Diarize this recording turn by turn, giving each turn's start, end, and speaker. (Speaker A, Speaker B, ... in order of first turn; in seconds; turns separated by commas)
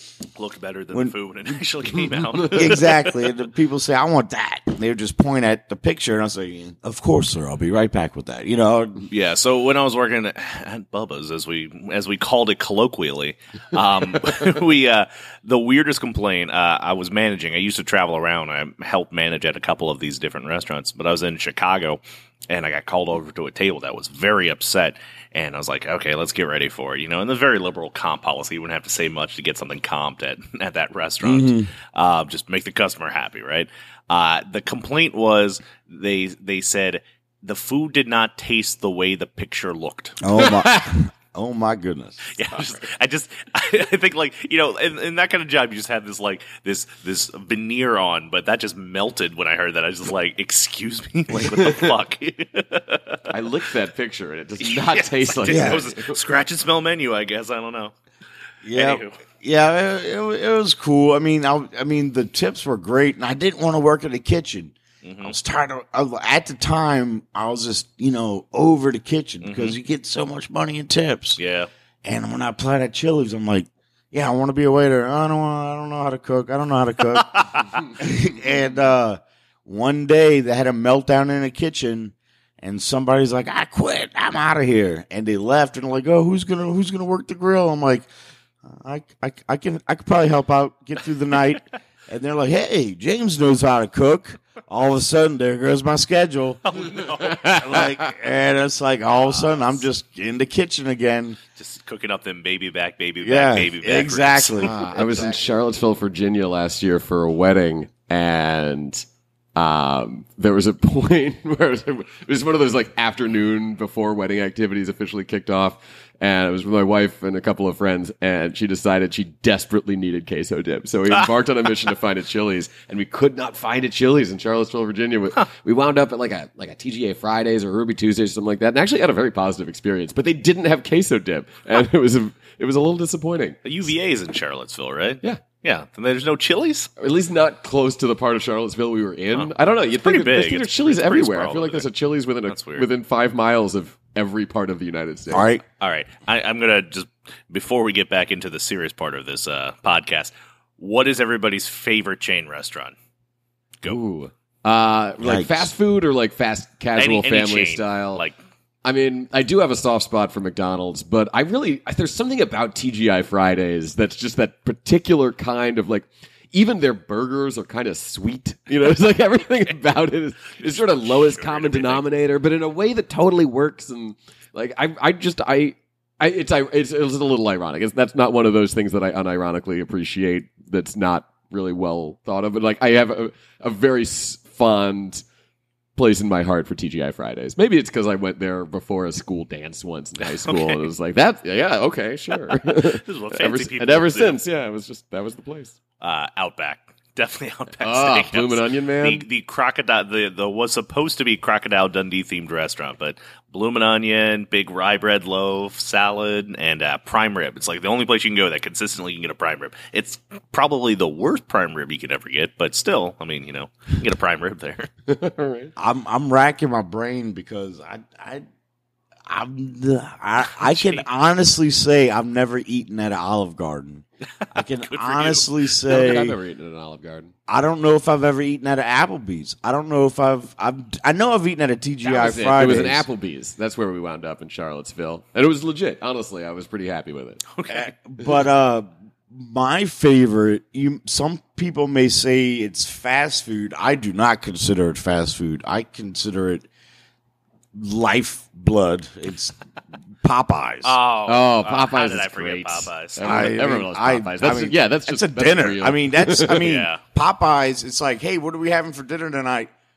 Speaker A: 0.4-3.3, Speaker B: 2.4-2.6, Speaker C: 2.5-9.1, Speaker A: 9.1-40.4, Speaker C: 31.2-31.7, Speaker C: 40.2-42.3, Speaker B: 40.4-40.9, Speaker A: 42.3-53.2, Speaker B: 51.6-51.9, Speaker B: 53.3-56.2, Speaker A: 54.6-57.9, Speaker C: 55.5-55.8, Speaker C: 58.6-71.4, Speaker A: 58.7-59.1, Speaker A: 65.0-65.3, Speaker A: 69.4-69.8, Speaker A: 71.4-71.7, Speaker C: 72.0-88.1, Speaker C: 88.7-101.4, Speaker A: 96.7-98.1, Speaker B: 97.2-97.7, Speaker A: 99.2-99.8, Speaker A: 101.6-104.8, Speaker C: 103.2-105.5, Speaker B: 104.6-109.0, Speaker B: 109.6-133.6, Speaker A: 133.6-136.9, Speaker B: 137.0-145.5, Speaker A: 139.3-141.9, Speaker A: 142.5-142.9, Speaker C: 145.3-145.6, Speaker A: 145.8-152.9, Speaker B: 153.9-158.2, Speaker C: 155.2-155.7, Speaker A: 157.0-158.3, Speaker B: 158.8-185.2, Speaker A: 170.6-172.0, Speaker B: 186.0-195.8, Speaker A: 190.3-190.8, Speaker A: 192.3-194.4, Speaker A: 196.0-214.9, Speaker B: 197.8-199.3, Speaker B: 215.1-215.7, Speaker C: 215.8-218.4, Speaker C: 219.3-226.4, Speaker A: 220.5-221.1, Speaker A: 224.8-225.7, Speaker B: 225.9-227.3, Speaker C: 227.5-233.1, Speaker B: 232.1-237.4, Speaker A: 237.5-237.9, Speaker C: 237.7-246.7, Speaker C: 247.7-249.6, Speaker C: 250.2-250.9, Speaker A: 250.8-253.5, Speaker B: 251.3-256.6, Speaker C: 253.2-259.7, Speaker A: 256.5-257.0